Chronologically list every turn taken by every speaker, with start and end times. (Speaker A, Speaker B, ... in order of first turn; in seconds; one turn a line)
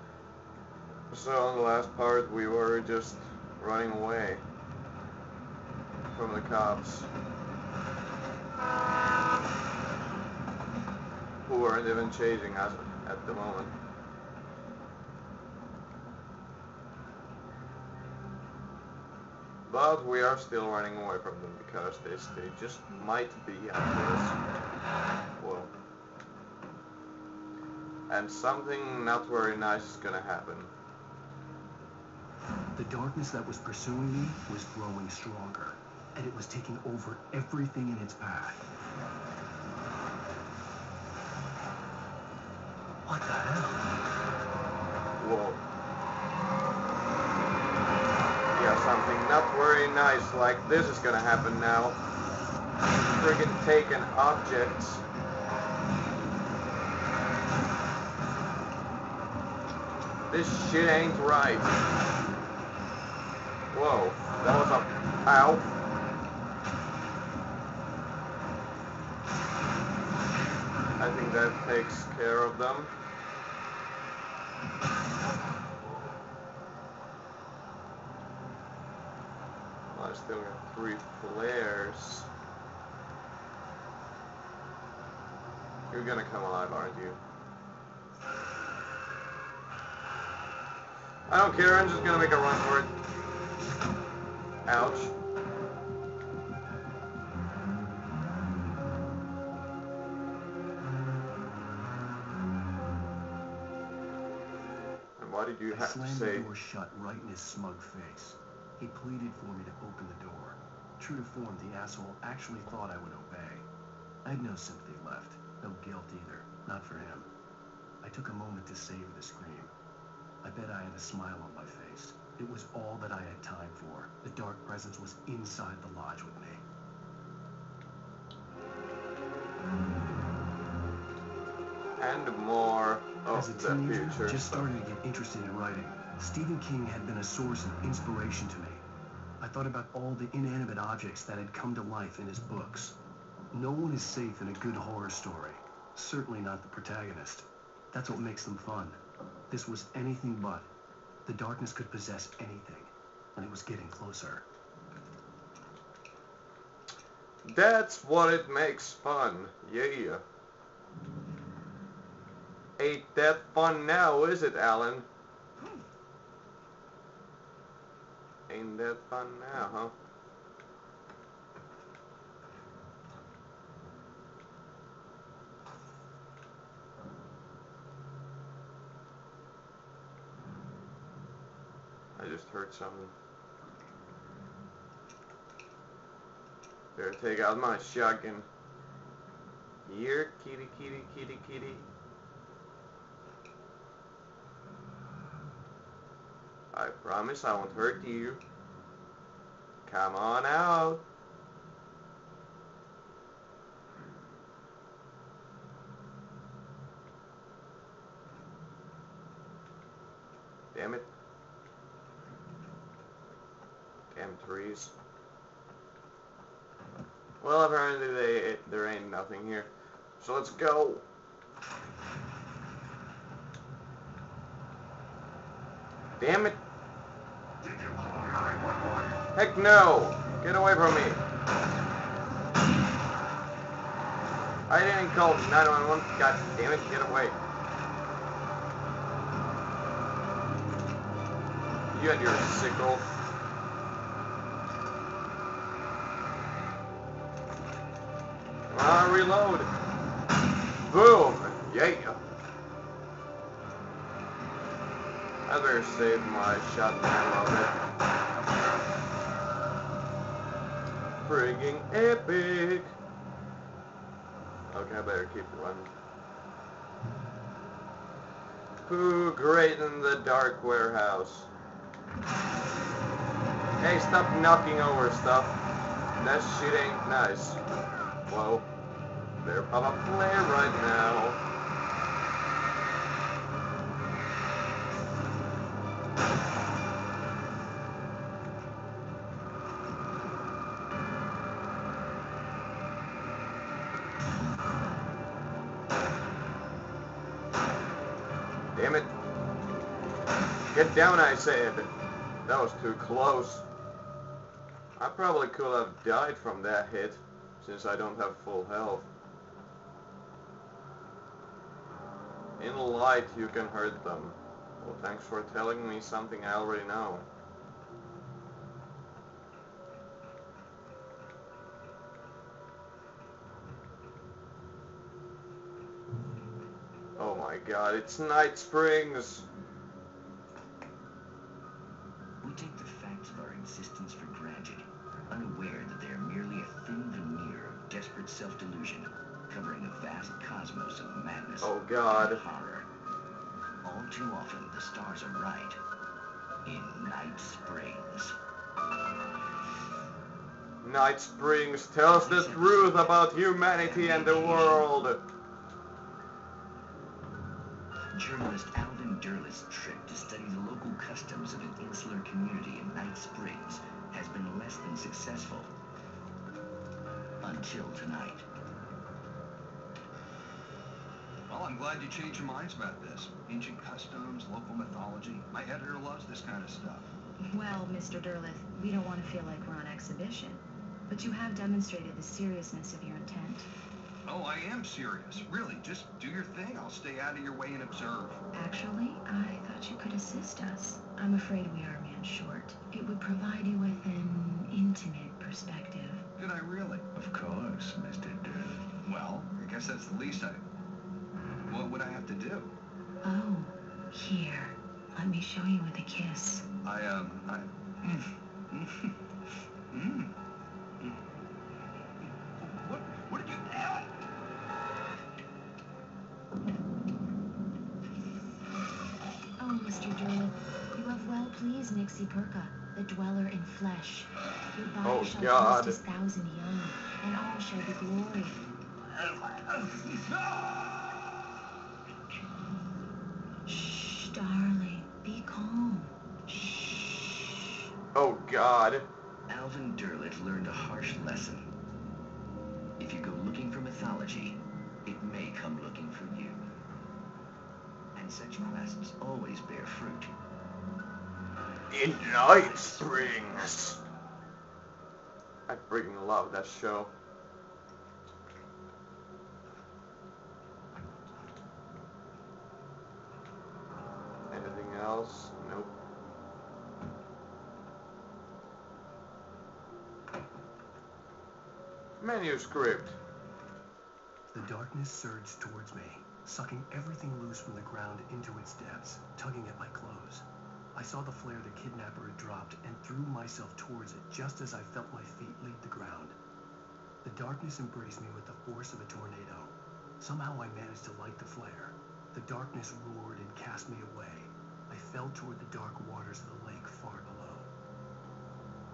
Speaker A: 1.1-4.4
Speaker A: 6.1-7.1
Speaker A: 11.5-13.7
Speaker A: 19.7-24.4
Speaker A: 25.4-25.7
Speaker A: 28.1-30.7
Speaker B: 32.8-38.7
Speaker B: 43.0-43.8
Speaker A: 45.2-45.6
Speaker A: 48.5-52.0
Speaker A: 53.1-55.0
Speaker A: 60.3-61.7
Speaker A: 63.7-65.7
Speaker A: 71.0-72.9
Speaker A: 79.9-82.3
Speaker A: 85.9-87.2
Speaker A: 91.3-92.9
Speaker A: 94.7-95.1
Speaker A: 105.2-106.5
Speaker B: 105.7-113.7
Speaker B: 114.2-117.3
Speaker B: 118.0-119.7
Speaker B: 120.4-126.7
Speaker A: 132.0-134.8
Speaker B: 133.3-138.8
Speaker B: 139.4-143.0
Speaker B: 143.5-150.7
Speaker B: 151.3-154.4
Speaker A: 157.4-160.2
Speaker A: 162.8-165.1
Speaker A: 168.5-169.9
Speaker A: 182.2-183.1
Speaker A: 186.9-188.5
Speaker A: 189.8-191.9
Speaker A: 196.7-198.4
Speaker A: 199.9-201.0
Speaker A: 210.7-211.1
Speaker A: 214.1-214.9
Speaker A: 217.4-221.1
Speaker A: 226.2-226.6
Speaker A: 229.3-231.2
Speaker A: 234.7-237.4
Speaker A: 241.9-243.1
Speaker A: 248.7-249.7
Speaker A: 250.9-252.2
Speaker A: 255.5-257.8
Speaker A: 261.2-262.9
Speaker A: 264.7-265.9
Speaker A: 268.8-271.5
Speaker A: 273.8-275.6
Speaker A: 276.2-277.6
Speaker A: 278.3-278.7
Speaker A: 279.4-281.4
Speaker A: 298.8-299.1
Speaker A: 300.7-301.9
Speaker A: 302.5-303.7
Speaker A: 305.0-309.1
Speaker A: 312.6-317.3
Speaker A: 327.2-329.5
Speaker C: 332.4-342.9
Speaker A: 341.6-342.4
Speaker C: 343.8-345.8
Speaker C: 346.6-348.4
Speaker A: 350.8-355.2
Speaker C: 352.1-354.9
Speaker C: 358.1-365.7
Speaker C: 367.4-368.5
Speaker D: 371.5-377.1
Speaker E: 377.4-383.7
Speaker D: 384.3-388.4
Speaker E: 388.5-396.2
Speaker D: 396.4-397.1
Speaker C: 397.1-399.0
Speaker D: 399.0-400.6
Speaker D: 401.7-402.8
Speaker E: 403.2-406.6
Speaker D: 406.8-409.2
Speaker D: 409.9-410.3
Speaker D: 412.2-414.1
Speaker E: 419.6-428.6
Speaker A: 425.0-426.0
Speaker D: 429.3-431.1
Speaker E: 433.7-437.5
Speaker A: 438.1-439.1
Speaker C: 439.5-441.7
Speaker C: 443.0-446.6
Speaker C: 448.1-450.3
Speaker A: 451.9-454.0
Speaker C: 452.4-453.3
Speaker A: 455.7-457.1
Speaker A: 464.5-465.9
Speaker A: 472.2-473.2
Speaker B: 474.5-486.4
Speaker B: 487.2-497.7